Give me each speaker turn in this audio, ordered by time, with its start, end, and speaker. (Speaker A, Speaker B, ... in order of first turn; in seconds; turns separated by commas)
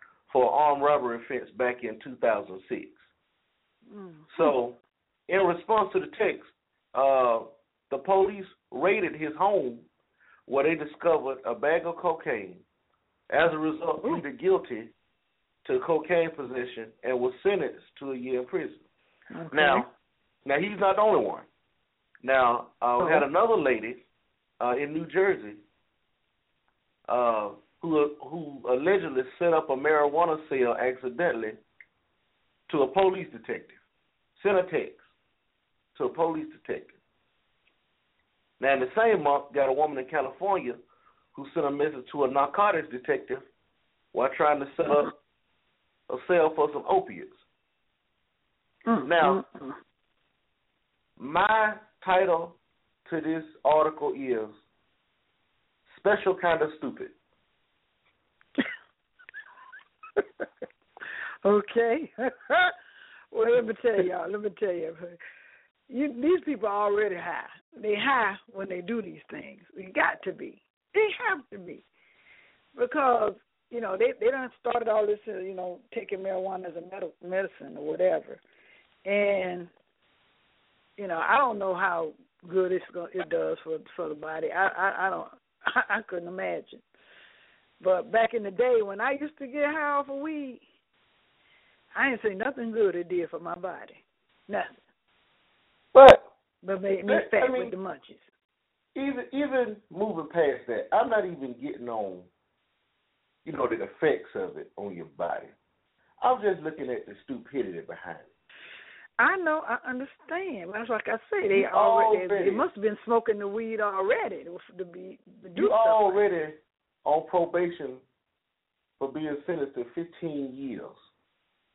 Speaker A: 0.3-3.0, Speaker B: 3.9-4.5, Speaker A: 4.3-9.8, Speaker A: 10.5-12.6, Speaker A: 13.3-14.9, Speaker A: 15.6-18.8, Speaker B: 19.3-19.9, Speaker A: 19.5-19.9, Speaker A: 20.4-21.5, Speaker A: 22.2-24.0, Speaker B: 23.0-23.2, Speaker A: 24.6-25.6, Speaker A: 27.1-31.6, Speaker A: 32.7-33.8, Speaker A: 34.4-35.0, Speaker A: 35.9-37.0, Speaker A: 38.6-40.8, Speaker A: 41.3-43.5, Speaker A: 44.1-45.1, Speaker A: 46.1-47.4, Speaker B: 48.9-49.8, Speaker A: 49.0-49.4, Speaker A: 51.2-54.6, Speaker A: 55.9-57.1, Speaker B: 61.4-62.7, Speaker B: 63.3-65.2, Speaker B: 65.9-71.8, Speaker B: 72.7-78.4, Speaker B: 79.0-79.7, Speaker B: 81.0-86.8, Speaker B: 87.8-90.6, Speaker B: 91.9-94.8, Speaker A: 95.9-96.2, Speaker B: 96.6-98.2, Speaker A: 97.0-97.7, Speaker A: 98.9-102.3, Speaker A: 103.4-105.5, Speaker A: 106.2-108.3, Speaker B: 109.2-116.2, Speaker A: 111.5-112.6, Speaker A: 115.5-118.0, Speaker A: 119.0-121.0